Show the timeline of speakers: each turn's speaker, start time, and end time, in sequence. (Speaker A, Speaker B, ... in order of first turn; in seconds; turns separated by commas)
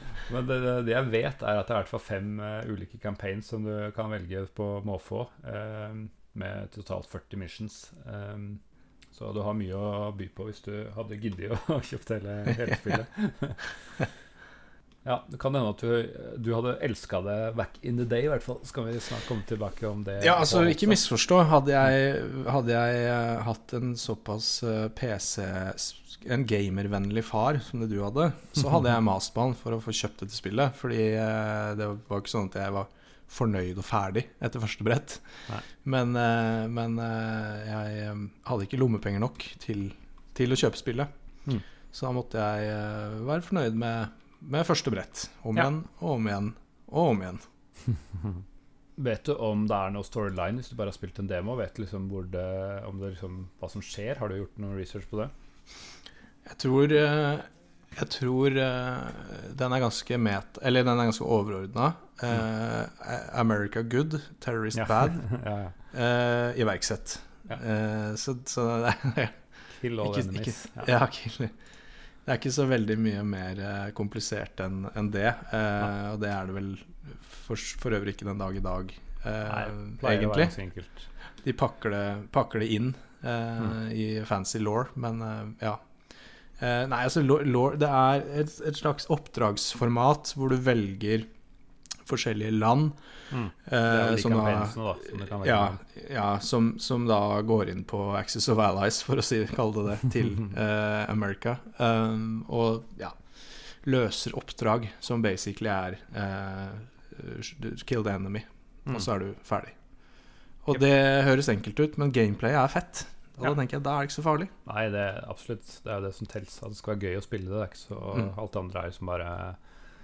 Speaker A: 0.3-8.6, Speaker A: 9.1-13.7, Speaker A: 15.1-21.0, Speaker B: 20.2-41.1, Speaker B: 41.9-47.4, Speaker A: 49.0-55.3, Speaker B: 56.5-65.2, Speaker A: 64.8-65.8, Speaker B: 65.9-69.4, Speaker A: 69.7-70.9, Speaker B: 70.0-71.5, Speaker B: 72.3-80.6, Speaker A: 79.5-81.1, Speaker B: 81.4-85.8, Speaker B: 86.6-91.3, Speaker B: 92.1-93.0, Speaker A: 93.3-95.8, Speaker B: 93.7-103.2, Speaker B: 103.8-109.8, Speaker B: 110.6-114.5, Speaker A: 114.7-119.6